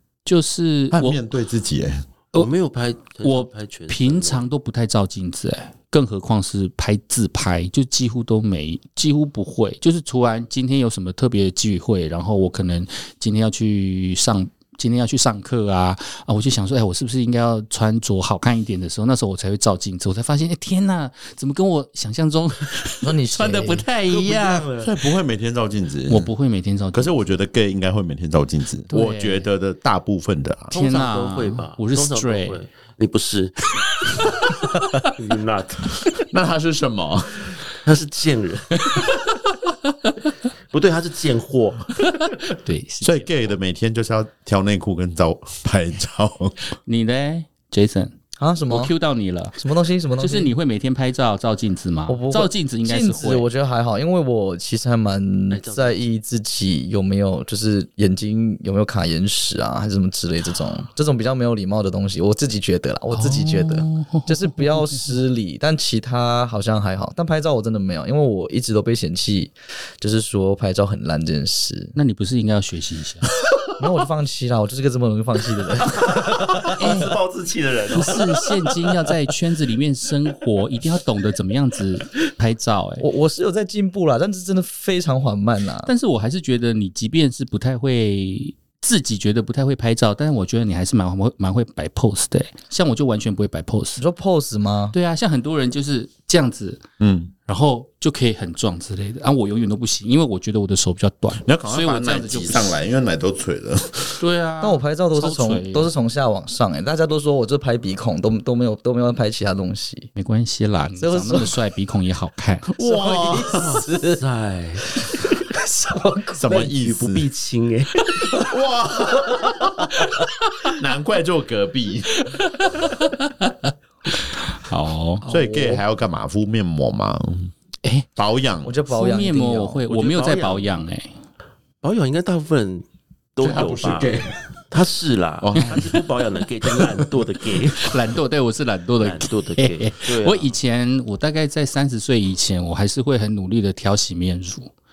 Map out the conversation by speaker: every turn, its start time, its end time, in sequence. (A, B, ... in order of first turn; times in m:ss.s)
0:00.3-0:01.2 A
0:00.9-0:02.1 B
0:02.3-0:04.5 C
0:03.2-0:24.7 A
0:23.0-0:23.9 D
0:24.1-0:24.9 C
0:24.8-0:26.3 B
0:26.1-0:27.1 A
0:26.9-0:30.8 B
0:28.9-0:29.5 A
0:30.7-0:32.6 A
0:30.7-0:34.3 C
0:35.1-0:36.0 C
0:36.3-0:37.6 B
0:37.8-0:39.1 C
0:40.7-0:41.9 C
0:42.5-0:43.3 A
0:43.0-0:46.6 B
0:46.9-0:48.1 A
0:48.4-0:48.9 D
0:48.7-0:49.6 A
0:49.6-0:50.5 D
0:50.2-0:53.5 A
0:52.1-1:12.0 D
0:55.5-0:56.0 C
1:03.1-1:05.1 A
1:12.0-1:13.3 A
1:13.8-1:16.6 D
1:16.0-1:18.9 C
1:16.8-1:17.2 A
1:17.9-1:23.0 A
1:23.0-1:25.9 D
1:25.8-1:34.0 A
1:34.0-1:35.0 D
1:34.9-1:36.8 A
1:37.0-1:37.3 B
1:37.4-1:42.8 A
1:41.4-1:44.2 B
1:44.2-1:45.9 A
1:44.6-1:50.1 D
1:50.2-1:52.7 A
1:51.0-1:51.6 D
1:52.7-1:53.8 B
1:52.8-1:54.2 D
1:53.3-1:55.1 C
1:55.1-1:56.7 D
1:56.4-1:57.2 B
1:56.5-1:58.5 C
1:58.3-2:00.1 B
2:00.6-2:02.2 B
2:02.3-2:05.2 A
2:05.3-2:07.5 B
2:05.3-2:05.8 D
2:08.2-2:08.7 B
2:08.6-2:09.8 D
2:08.9-2:11.1 A
2:09.9-2:10.7 C
2:11.8-2:12.8 C
2:13.4-2:14.1 C
2:13.4-2:14.4 B
2:14.7-2:18.0 C
2:15.4-2:16.1 B
2:17.8-2:24.7 A
2:19.0-2:20.6 C